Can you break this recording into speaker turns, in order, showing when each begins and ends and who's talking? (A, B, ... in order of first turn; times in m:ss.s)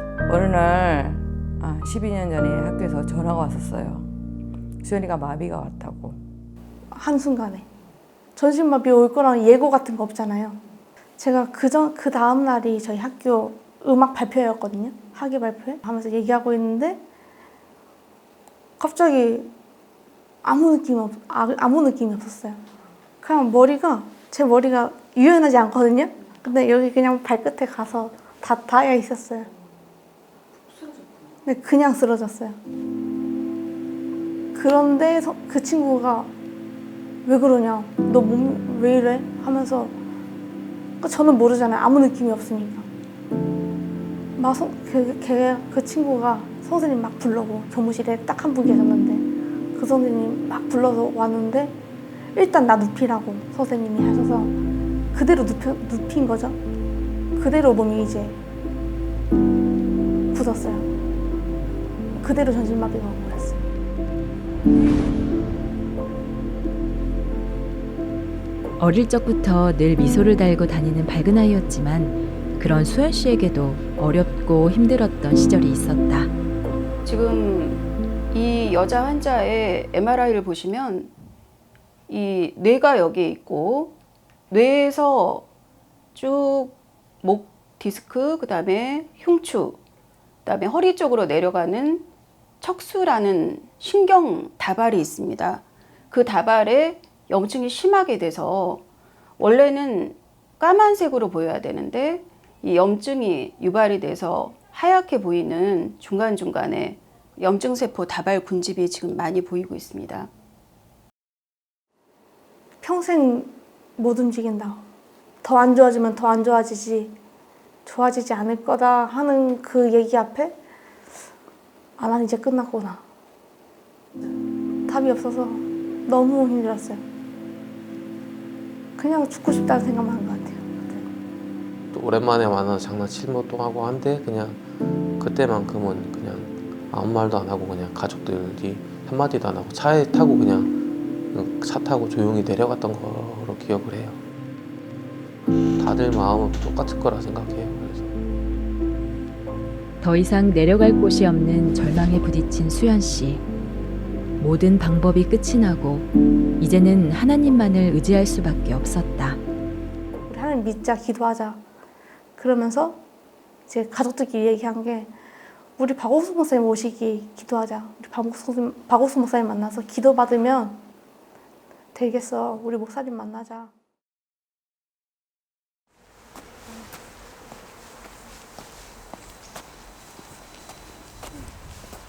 0:00.3-0:04.1 A
0:04.8-0:06.2 A
0:06.9-0:07.7 B
0:08.4-0:10.6 B
0:11.2-0:17.0 B
0:18.8-0:19.5 B
0:20.4-0:22.6 B
0:23.2-0:29.5 B
0:31.4-0:32.6 B
0:34.5-0:36.3 B
0:37.2-0:40.0 B
0:41.0-0:42.9 B
0:44.4-0:51.8 B
0:52.4-0:54.6 B
0:55.1-0:56.6 B
0:57.4-0:58.4 B
1:00.3-1:00.9 B
1:02.2-1:03.6 B
1:08.8-1:16.3 C
1:17.1-1:21.1 D
1:22.1-1:24.0 D
1:24.5-1:25.5 D
1:26.2-1:29.8 D
1:30.5-1:32.1 D
1:32.6-1:38.8 D
1:39.4-1:50.3 D
1:52.8-1:54.8 B
1:55.4-1:57.2 B
1:57.8-2:00.6 B
2:02.0-2:03.0 B
2:04.9-2:07.0 B
2:09.0-2:11.1 B
2:11.9-2:14.6 E
2:15.2-2:20.7 E
2:21.3-2:24.2 E
2:25.8-2:28.1 E
2:30.0-2:33.4 C
2:34.4-2:36.1 C
2:36.6-2:39.4 C
2:40.3-2:41.6 B
2:42.4-2:43.0 B
2:43.7-2:45.1 B
2:45.8-2:50.8 B
2:51.9-2:53.7 B